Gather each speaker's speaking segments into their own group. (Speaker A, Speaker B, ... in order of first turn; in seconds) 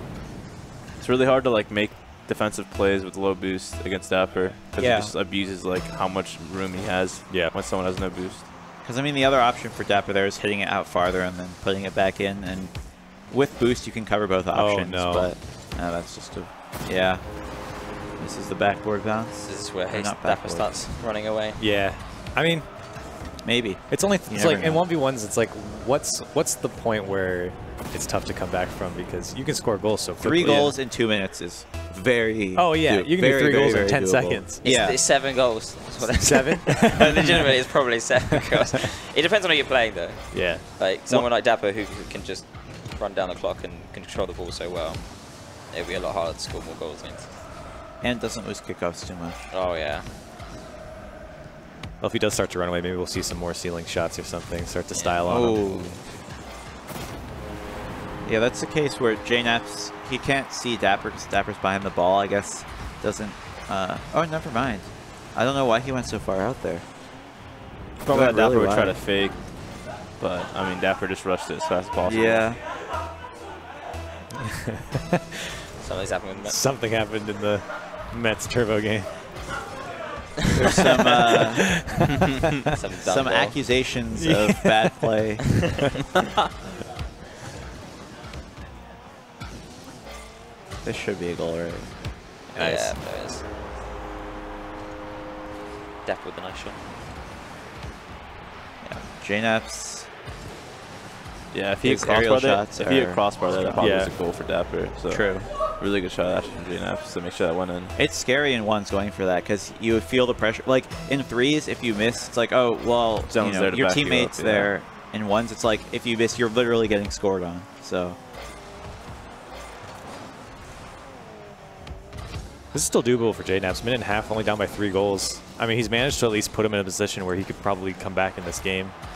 Speaker A: 1.0-8.5, 68.0-72.5, 101.5-107.9, 113.3-114.7
Speaker B: 4.8-5.1, 8.8-20.9, 23.4-24.8, 30.2-35.2, 48.0-49.5, 55.2-56.0, 58.2-66.8, 68.1-69.0, 72.0-72.6, 80.5-81.8, 83.0-85.8, 90.8-92.9, 98.8-100.1, 101.8-103.8, 105.1-105.5, 108.0-118.2
Speaker C: 14.5-15.3, 21.6-22.7, 23.9-30.8, 32.5-34.6, 36.1-37.5, 40.3-41.2, 52.0-55.6, 76.4-79.1, 81.0-81.4, 84.1-85.0, 103.8-104.1, 122.7-128.9
Speaker D: 19.4-21.6, 34.6-47.3, 49.5-50.1, 54.9-55.9, 75.8-76.6, 82.7-83.9, 92.5-93.4, 96.0-96.8